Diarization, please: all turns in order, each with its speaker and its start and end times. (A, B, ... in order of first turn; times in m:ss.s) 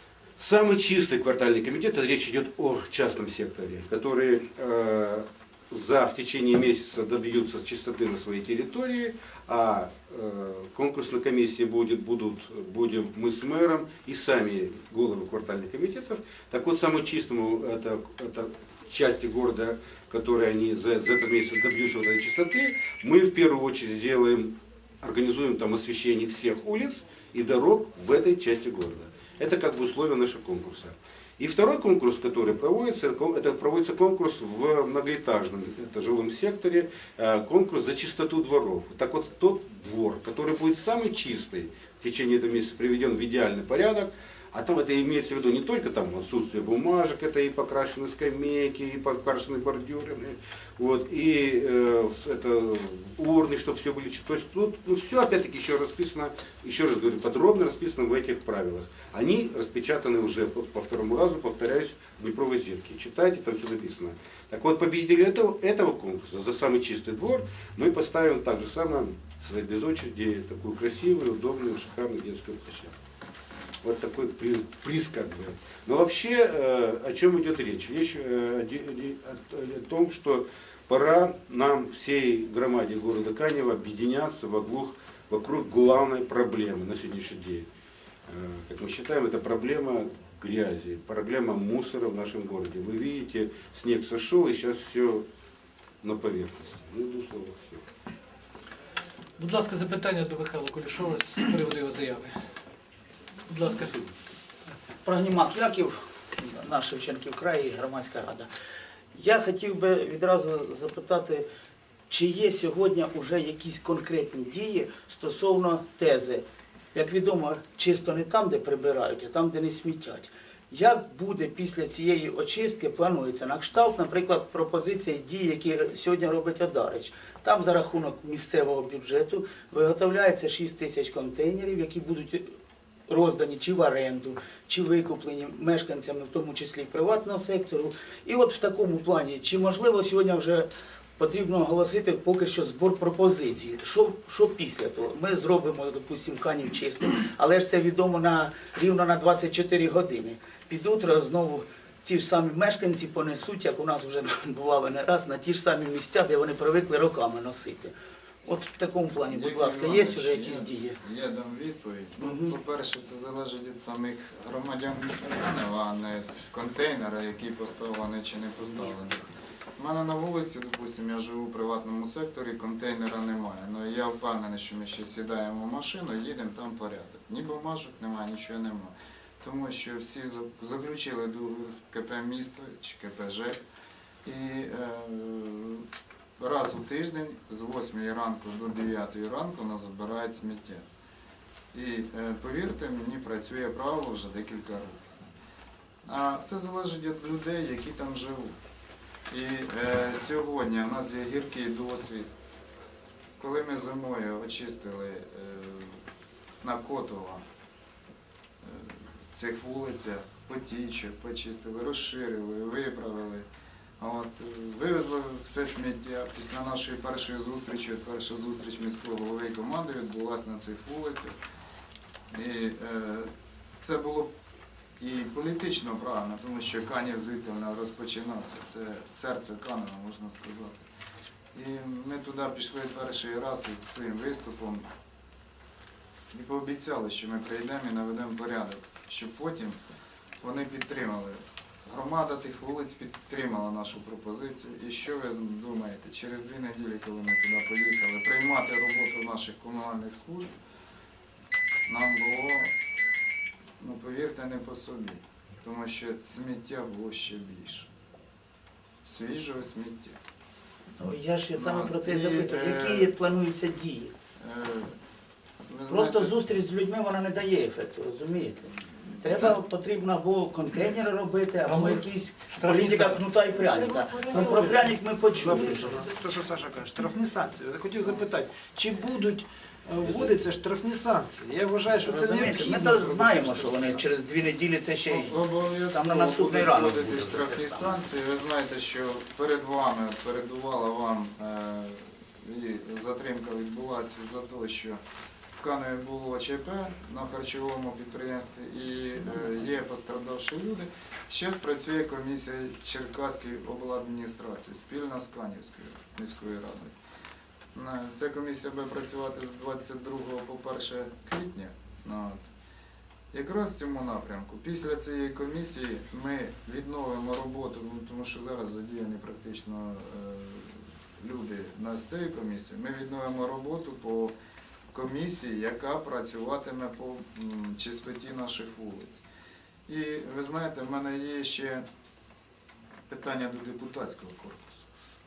0:00.4-1:12.9 A
1:13.8-1:27.6 A
1:28.3-1:35.2 A
1:36.0-1:37.8 A
1:39.4-1:42.4 B
1:43.5-1:43.9 B
1:43.6-1:44.1 A
1:45.0-1:48.5 C
1:49.1-1:51.4 C
1:52.1-2:12.5 C
2:13.1-2:41.0 C
2:39.3-2:49.2 D
2:42.2-2:42.5 C
2:49.8-3:03.6 D
3:04.2-3:05.8 D
3:06.4-3:10.8 D
3:11.7-3:15.0 D
3:16.0-3:18.6 D
3:19.3-3:22.3 D
3:23.4-3:26.0 D
3:26.6-3:27.4 D
3:28.6-3:33.5 D
3:34.0-3:41.4 D
3:42.3-3:44.3 D
3:45.0-3:50.9 D
3:51.5-3:54.8 D
3:56.3-3:59.8 D
4:00.4-4:10.5 D
4:11.9-4:12.7 D
4:13.8-4:17.9 D
4:19.0-4:20.2 D
4:21.0-4:24.1 C
4:21.5-4:23.1 D
4:24.4-4:24.9 D
4:25.7-4:26.3 D
4:25.9-4:36.0 C
4:31.6-4:33.2 B
4:34.0-4:34.8 B
4:34.4-4:34.7 E
4:35.3-4:43.6 E
4:42.0-4:48.0 C
4:42.4-4:44.0 D
4:45.1-4:55.0 D
4:55.6-5:06.9 D
5:07.7-5:12.4 D
5:13.3-5:24.3 D
5:24.9-5:29.2 D
5:29.9-5:31.8 D
5:33.1-5:34.8 D